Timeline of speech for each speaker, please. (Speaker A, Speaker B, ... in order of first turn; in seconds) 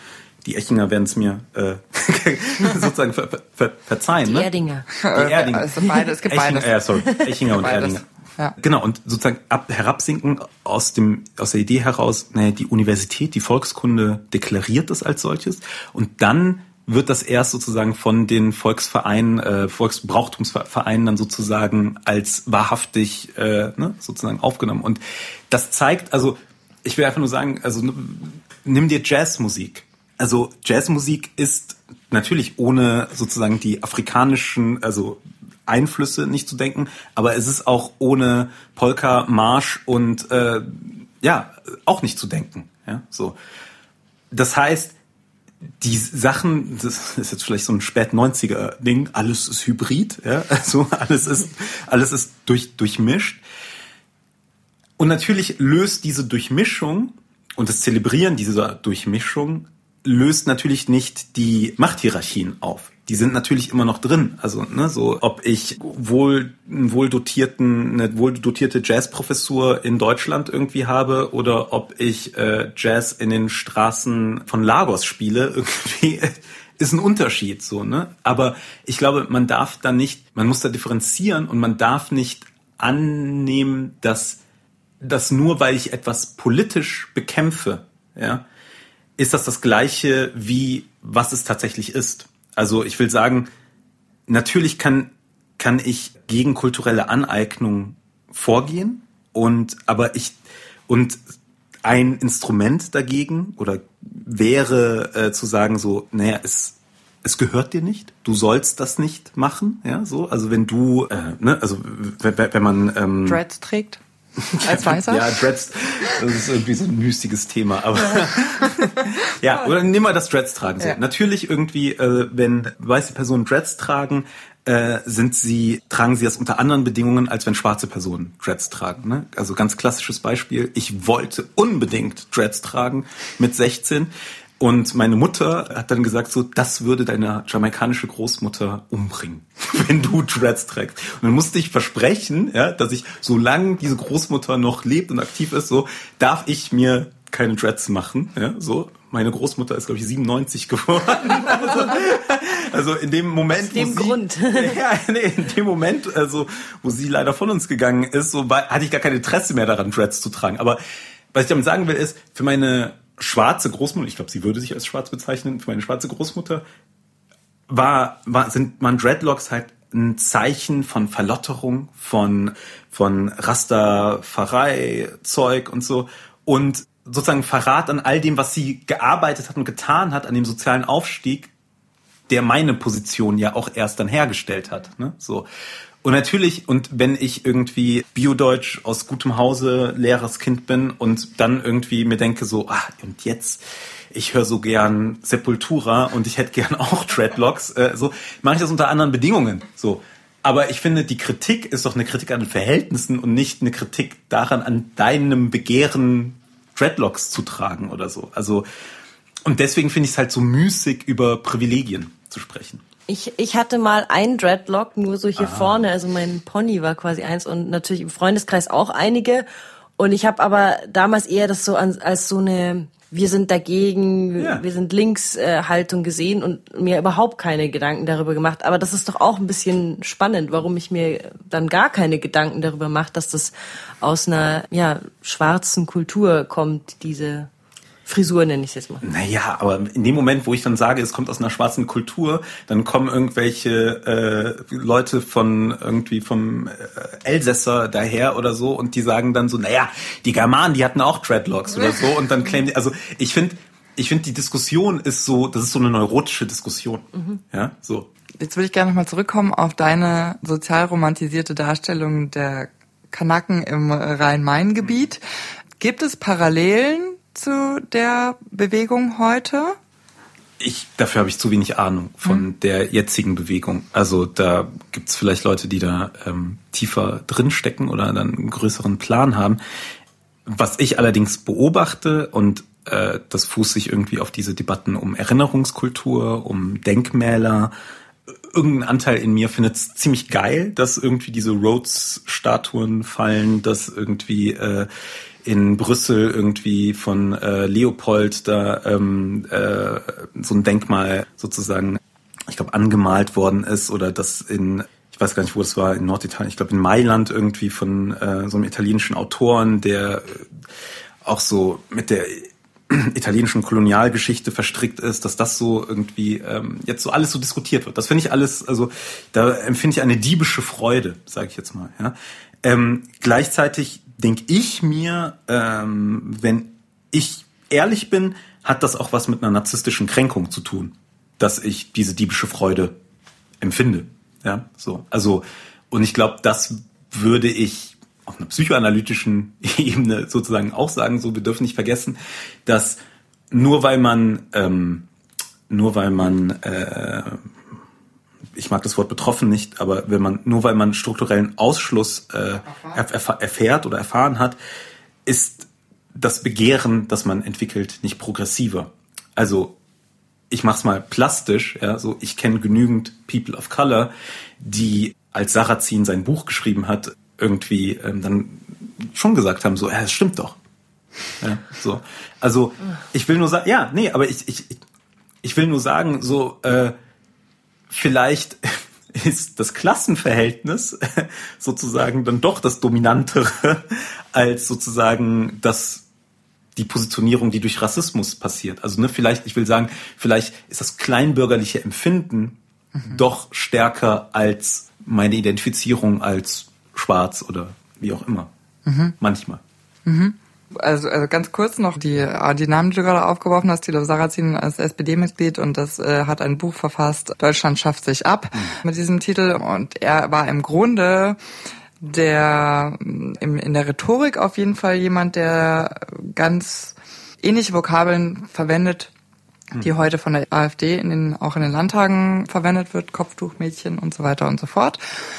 Speaker A: 0.4-4.5, 5.1-8.0, 8.6-43.4, 44.3-44.9, 45.8-53.4, 55.0-84.4, 85.0-88.4, 89.2-93.5, 94.3-101.2, 101.8-113.4, 114.5-160.8, 161.3-166.6, 167.7-181.5, 182.3-185.5, 186.0-208.6, 209.4-212.8, 215.4-215.7, 224.4-224.6, 239.0-258.1, 270.6-279.6, 280.4-287.7, 288.5-294.9, 295.4-310.5, 311.2-332.9, 333.6-343.0, 343.5-345.1, 345.7-347.5, 348.5-354.6, 355.2-359.7, 360.5-370.6, 371.4-374.8, 375.4-376.9, 377.9-386.0, 386.8-398.5, 399.2-399.6
Speaker B: 4.2-4.9, 153.6-154.8, 213.1-219.4, 220.0-237.5, 238.1-239.0
Speaker C: 5.0-6.8, 7.5-8.5, 113.2-114.0, 114.6-115.4, 118.6-119.0, 258.4-265.2, 265.8-269.8, 398.9-399.1, 400.1-411.4, 412.0-419.1, 419.8-425.0